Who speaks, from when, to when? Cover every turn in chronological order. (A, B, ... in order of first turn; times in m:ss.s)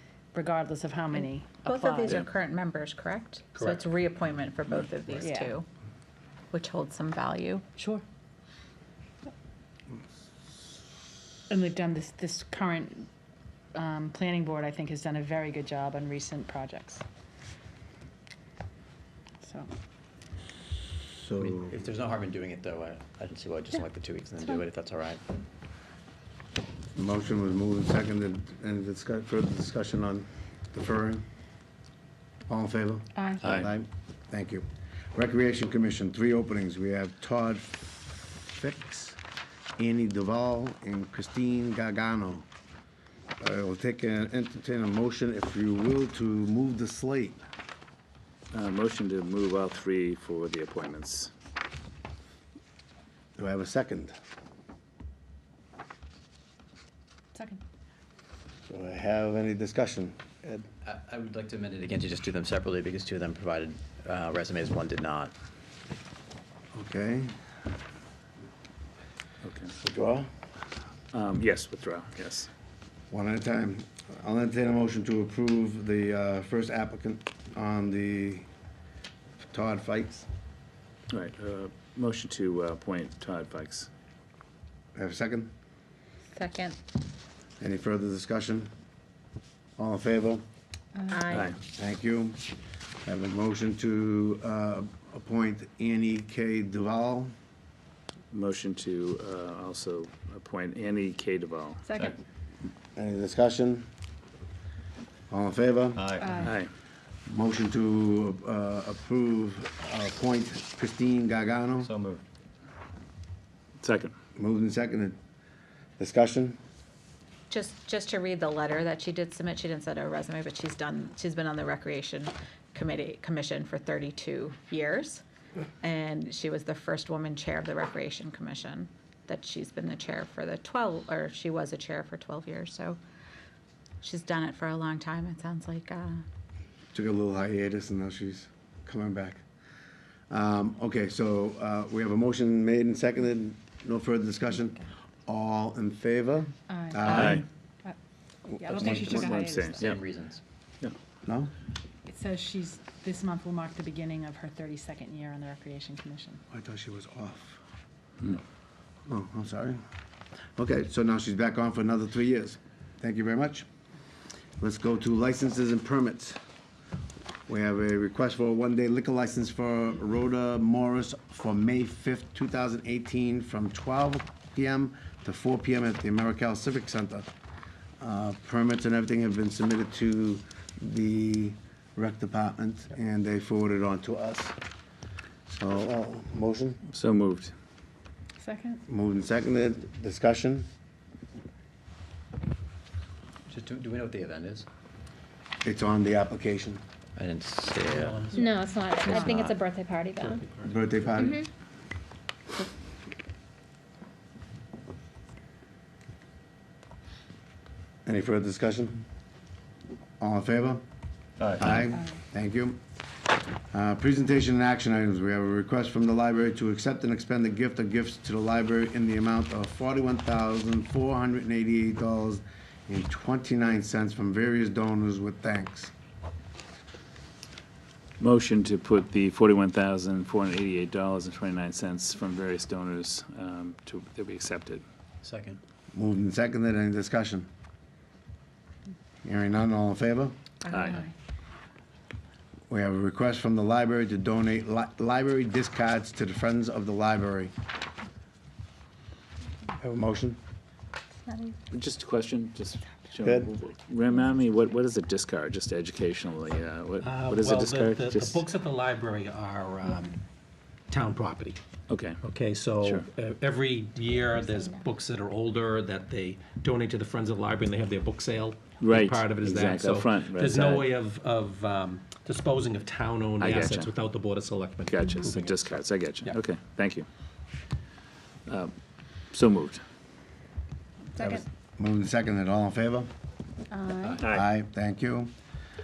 0:00.3-0:02.2 A
0:01.2-0:05.7 B
0:05.2-0:05.5 A
0:06.5-0:07.6 B
0:07.8-0:08.0 A
0:11.5-0:13.1 A
0:13.7-0:17.0 A
0:19.4-0:19.7 A
0:21.1-0:21.8 C
0:21.4-0:25.2 D
0:27.0-0:31.2 C
0:32.5-0:39.2 C
0:33.1-0:33.5 A
0:33.4-0:33.7 E
0:39.8-0:42.4 C
0:43.4-0:47.4 C
0:48.5-0:51.3 E
0:53.4-0:54.1 C
0:57.3-0:57.6 A
0:58.7-1:00.7 C
1:00.8-1:05.3 D
1:06.7-1:07.3 C
1:09.4-1:09.7 E
1:09.8-1:10.3 C
1:11.1-1:12.5 E
1:13.1-1:18.5 C
1:19.4-1:20.3 C
1:21.1-1:23.9 E
1:25.0-1:25.5 C
1:26.3-1:26.8 B
1:27.6-1:28.7 C
1:29.8-1:30.4 C
1:31.0-1:31.4 A
1:31.1-1:31.5 B
1:31.3-1:31.6 E
1:31.6-1:32.4 C
1:33.0-1:37.3 C
1:38.3-1:42.0 E
1:41.9-1:42.2 A
1:43.0-1:43.9 C
1:45.3-1:46.1 C
1:46.0-1:46.3 D
1:46.2-1:46.6 A
1:46.4-1:46.7 E
1:47.3-1:51.9 C
1:51.8-1:52.2 D
1:53.8-1:54.1 E
1:54.4-1:55.2 C
1:56.0-1:56.6 C
1:57.5-2:05.2 B
2:05.8-2:13.0 B
2:14.0-2:16.2 B
2:16.9-2:19.4 C
2:20.3-2:27.4 C
2:26.7-2:27.9 A
2:27.1-2:27.4 E
2:28.5-2:29.9 A
2:28.7-2:30.4 D
2:29.2-2:30.0 E
2:31.2-2:31.5 C
2:32.1-2:36.4 A
2:36.5-2:37.6 C
2:39.1-2:39.8 C
2:40.6-2:43.7 C
2:44.6-2:46.4 C
2:47.5-2:57.3 C
2:58.0-3:04.5 C
3:05.5-3:06.8 C
3:06.9-3:07.5 E
3:08.4-3:08.8 A
3:08.9-3:10.7 C
3:13.5-3:14.6 D
3:15.6-3:16.8 C
3:17.2-3:18.5 D
3:17.8-3:18.6 F
3:18.3-3:20.5 G
3:19.0-3:19.6 D
3:20.2-3:20.8 F
3:20.6-3:21.4 C
3:21.2-3:21.4 G
3:28.0-3:29.0 C
3:30.2-3:30.8 C
3:31.6-3:32.8 C
3:33.7-3:45.9 C
3:48.2-3:54.8 E
3:55.2-3:55.6 D
3:55.9-3:57.5 C
3:59.2-4:00.3 C
4:00.7-4:01.0 E
4:02.7-4:07.5 C
4:09.8-4:10.4 C
4:11.7-4:18.4 E
4:13.2-4:13.5 C
4:17.0-4:20.2 F
4:20.9-4:21.6 F
4:21.9-4:22.2 E
4:22.2-4:36.4 F
4:22.8-4:23.1 E
4:24.4-4:24.7 G
4:28.8-4:30.9 E
4:33.4-4:34.0 E
4:34.8-4:37.0 E
4:38.5-4:38.7 E
4:39.3-4:39.8 E
4:41.2-4:43.1 C
4:43.7-4:44.2 G
4:44.1-4:44.4 E
4:44.3-4:45.3 C